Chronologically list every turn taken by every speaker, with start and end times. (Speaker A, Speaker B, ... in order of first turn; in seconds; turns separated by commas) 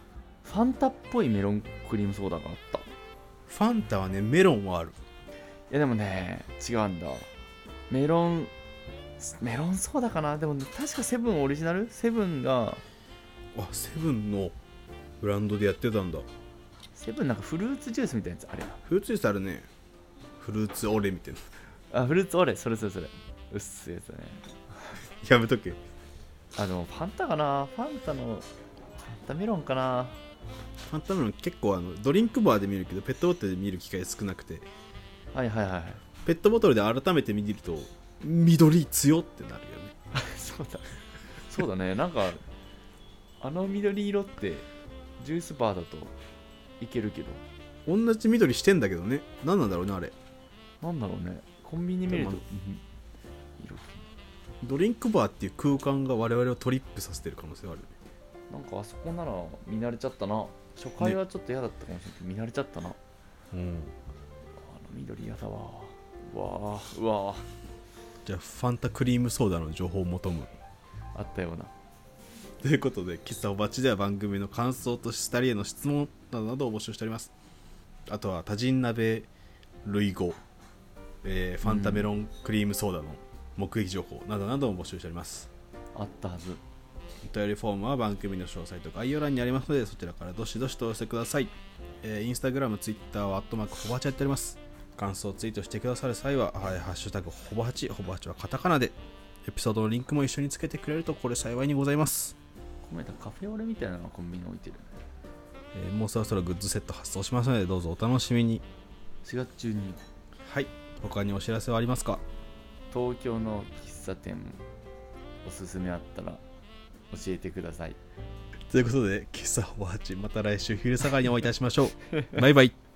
Speaker A: 0.4-2.9, Speaker B: 3.5-5.0, Speaker A: 5.7-7.3, Speaker A: 7.9-8.5, Speaker A: 9.2-12.8, Speaker B: 13.6-14.6, Speaker B: 15.2-16.3, Speaker A: 16.9-18.8, Speaker B: 18.9-19.7, Speaker B: 20.4-21.5, Speaker A: 21.9-25.0, Speaker B: 25.2-25.8, Speaker A: 26.6-28.5, Speaker A: 29.0-30.2, Speaker B: 30.9-34.7, Speaker A: 35.3-36.0, Speaker B: 36.2-39.9, Speaker A: 40.1-42.4, Speaker A: 43.4-44.7, Speaker A: 45.2-46.1, Speaker A: 46.8-47.4, Speaker B: 47.9-50.1, Speaker A: 50.8-52.8, Speaker B: 52.1-52.4, Speaker A: 53.6-54.1, Speaker B: 54.6-58.0, Speaker A: 58.5-63.0, Speaker B: 63.5-63.9, Speaker A: 64.6-67.5, Speaker B: 68.2-70.5, Speaker A: 71.2-71.7, Speaker B: 72.6-77.3, Speaker B: 78.1-79.3, Speaker B: 79.8-80.4, Speaker B: 81.2-85.5, Speaker A: 81.6-82.1, Speaker A: 86.0-86.6, Speaker B: 87.2-102.4, Speaker A: 102.8-105.0, Speaker B: 105.7-108.7, Speaker A: 109.2-110.0, Speaker B: 110.5-112.2, Speaker A: 112.9-114.6, Speaker A: 115.5-116.4, Speaker A: 117.1-118.0, Speaker B: 118.7-122.8